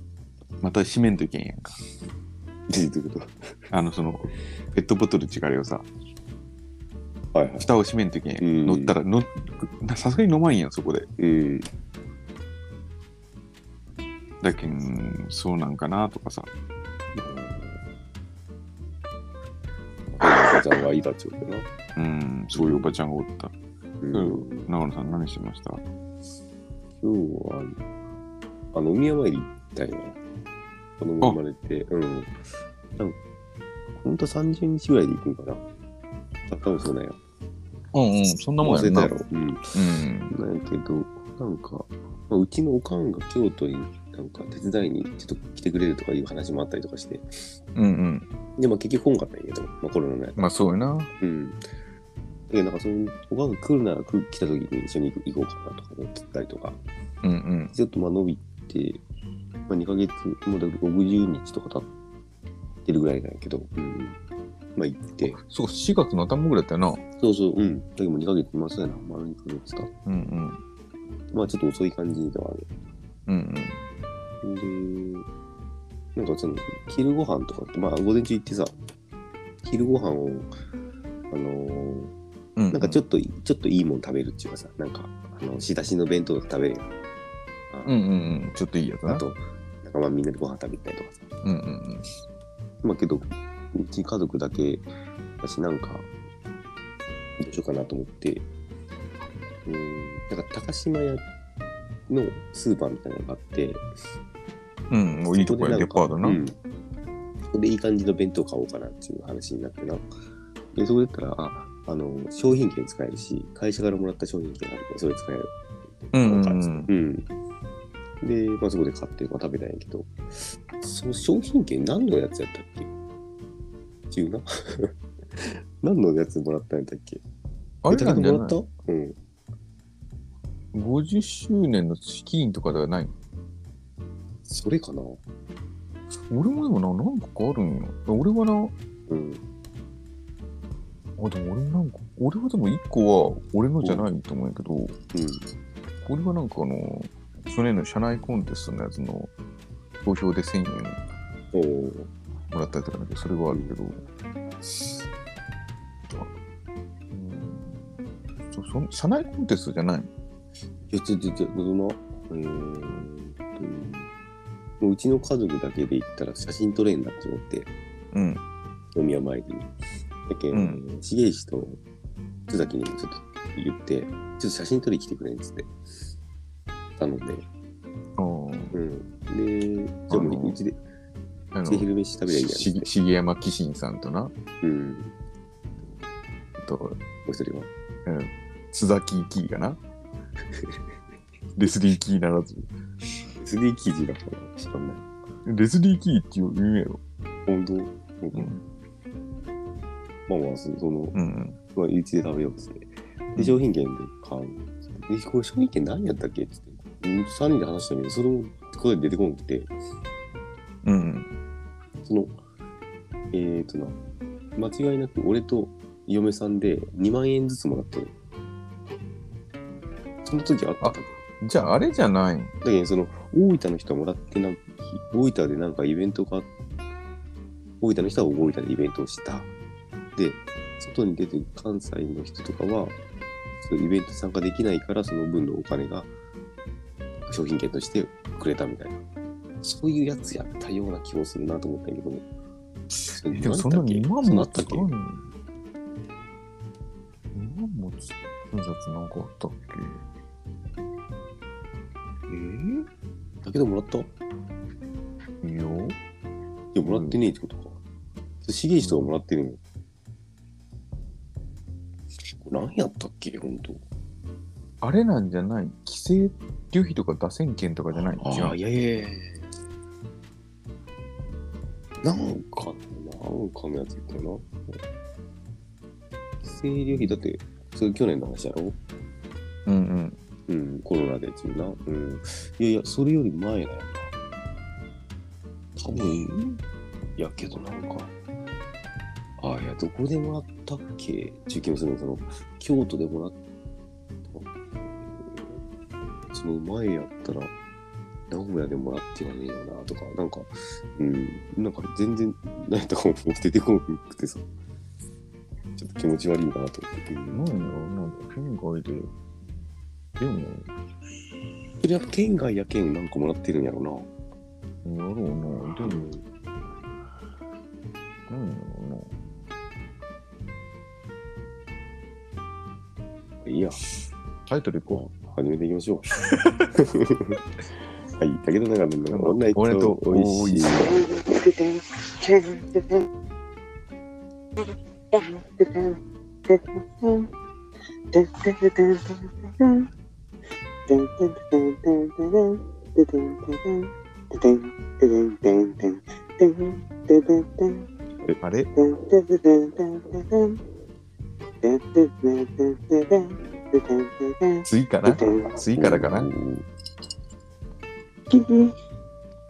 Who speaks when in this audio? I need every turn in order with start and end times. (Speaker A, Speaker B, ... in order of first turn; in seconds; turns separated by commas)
Speaker A: 0.6-1.8, Speaker B: 2.7-3.5, Speaker A: 3.7-5.9, Speaker B: 7.3-7.7, Speaker A: 7.6-11.1, Speaker B: 8.4-9.0, Speaker B: 11.2-11.7, Speaker A: 14.4-16.5, Speaker B: 17.1-17.8, Speaker B: 20.1-21.7, Speaker A: 22.0-23.5, Speaker B: 22.5-22.9, Speaker B: 24.0-24.7, Speaker A: 24.1-25.8, Speaker B: 27.0-27.8, Speaker B: 28.7-30.2, Speaker B: 31.0-32.3, Speaker B: 34.0-35.6, Speaker B: 36.5-37.2, Speaker A: 37.9-39.1, Speaker B: 38.6-39.7, Speaker A: 39.7-40.3, Speaker B: 40.3-47.5, Speaker A: 47.8-48.3, Speaker B: 48.6-50.5, Speaker A: 50.4-51.1, Speaker B: 51.2-51.6, Speaker B: 52.5-56.8, Speaker A: 57.2-57.8, Speaker B: 57.7-59.0, Speaker B: 59.7-61.9, Speaker B: 62.9-64.2, Speaker B: 64.8-65.4, Speaker A: 65.2-67.0, Speaker B: 67.2-69.9, Speaker A: 70.1-70.6, Speaker B: 71.3-72.7, Speaker A: 73.3-73.8, Speaker B: 74.4-75.3, Speaker B: 76.2-78.7, Speaker B: 79.6-80.5, Speaker B: 81.3-82.1, Speaker A: 82.6-83.0, Speaker B: 82.7-86.9, Speaker B: 87.7-88.0, Speaker A: 87.9-89.2, Speaker B: 89.1-91.3, Speaker A: 91.4-92.1, Speaker B: 92.8-94.9, Speaker B: 95.4-96.1, Speaker B: 97.4-98.5, Speaker B: 99.7-101.3, Speaker B: 102.1-103.9, Speaker A: 104.9-106.4, Speaker B: 105.3-106.6, Speaker B: 107.5-110.1, Speaker B: 110.7-117.3, Speaker A: 116.1-116.9, Speaker B: 118.2-122.9, Speaker B: 124.1-127.2, Speaker A: 127.8-128.6, Speaker B: 127.9-129.2, Speaker A: 130.7-133.1, Speaker B: 134.5-135.2, Speaker A: 136.2-138.7, Speaker B: 139.1-139.4, Speaker A: 141.2-145.0, Speaker B: 143.8-144.1, Speaker B: 145.1-145.5, Speaker A: 146.0-149.3, Speaker A: 150.0-151.0, Speaker B: 151.5-152.1, Speaker A: 152.5-154.0, Speaker A: 154.6-155.0, Speaker A: 157.1-157.9, Speaker A: 158.5-160.1, Speaker B: 160.9-164.1, Speaker B: 164.8-167.7, Speaker A: 168.1-168.4, Speaker B: 168.9-169.7, Speaker B: 170.3-171.8, Speaker A: 170.5-170.8, Speaker B: 172.5-175.7, Speaker B: 177.0-177.5, Speaker A: 178.2-178.8, Speaker B: 178.7-180.8, Speaker A: 180.1-180.6, Speaker A: 181.5-184.3, Speaker B: 181.7-182.9, Speaker B: 184.6-185.1, Speaker A: 186.6-187.0, Speaker B: 187.2-187.7, Speaker A: 188.1-189.8, Speaker A: 191.6-192.7, Speaker B: 193.4-195.1, Speaker A: 195.4-197.0, Speaker B: 197.5-198.6, Speaker A: 198.3-198.6, Speaker B: 200.3-201.2, Speaker A: 201.1-201.6, Speaker B: 201.7-209.7, Speaker A: 210.8-211.3, Speaker B: 212.0-212.4, Speaker B: 213.3-214.0, Speaker B: 214.6-218.1, Speaker B: 220.2-221.2, Speaker A: 220.8-222.5, Speaker B: 222.6-226.5, Speaker B: 227.8-229.5, Speaker B: 230.2-233.0, Speaker B: 233.6-236.1, Speaker B: 237.3-239.0, Speaker B: 239.6-242.2, Speaker A: 242.9-245.2, Speaker B: 243.1-244.9, Speaker A: 247.3-250.0, Speaker A: 252.3-252.9, Speaker B: 253.4-254.1, Speaker A: 255.4-256.0, Speaker B: 256.7-257.8, Speaker A: 256.9-257.2, Speaker B: 258.4-259.6, Speaker A: 258.8-259.1, Speaker B: 262.3-263.8, Speaker A: 264.8-268.6, Speaker B: 268.1-269.5, Speaker B: 272.0-274.8, Speaker B: 276.4-278.8, Speaker A: 276.9-277.2, Speaker A: 279.7-280.2, Speaker B: 280.5-284.1, Speaker B: 285.8-286.4, Speaker A: 285.9-286.6, Speaker B: 287.2-288.1, Speaker B: 289.4-293.4, Speaker B: 294.3-295.6, Speaker B: 296.3-297.5, Speaker B: 298.3-304.4, Speaker B: 305.8-307.5, Speaker A: 307.3-309.1, Speaker A: 310.2-310.7, Speaker B: 311.8-314.1, Speaker A: 314.8-316.1, Speaker B: 315.8-316.2, Speaker A: 318.3-319.1, Speaker B: 323.4-323.8, Speaker A: 324.5-325.1, Speaker B: 324.9-326.1, Speaker A: 326.3-326.7, Speaker B: 326.7-327.4, Speaker B: 328.2-330.9, Speaker A: 329.1-330.9, Speaker C: 330.8-333.1, Speaker C: 335.1-337.3, Speaker C: 338.1-339.9, Speaker C: 340.9-347.9, Speaker A: 348.4-348.7, Speaker C: 348.8-350.6, Speaker C: 351.6-355.6, Speaker A: 354.6-356.3, Speaker B: 355.8-356.7, Speaker C: 358.3-358.7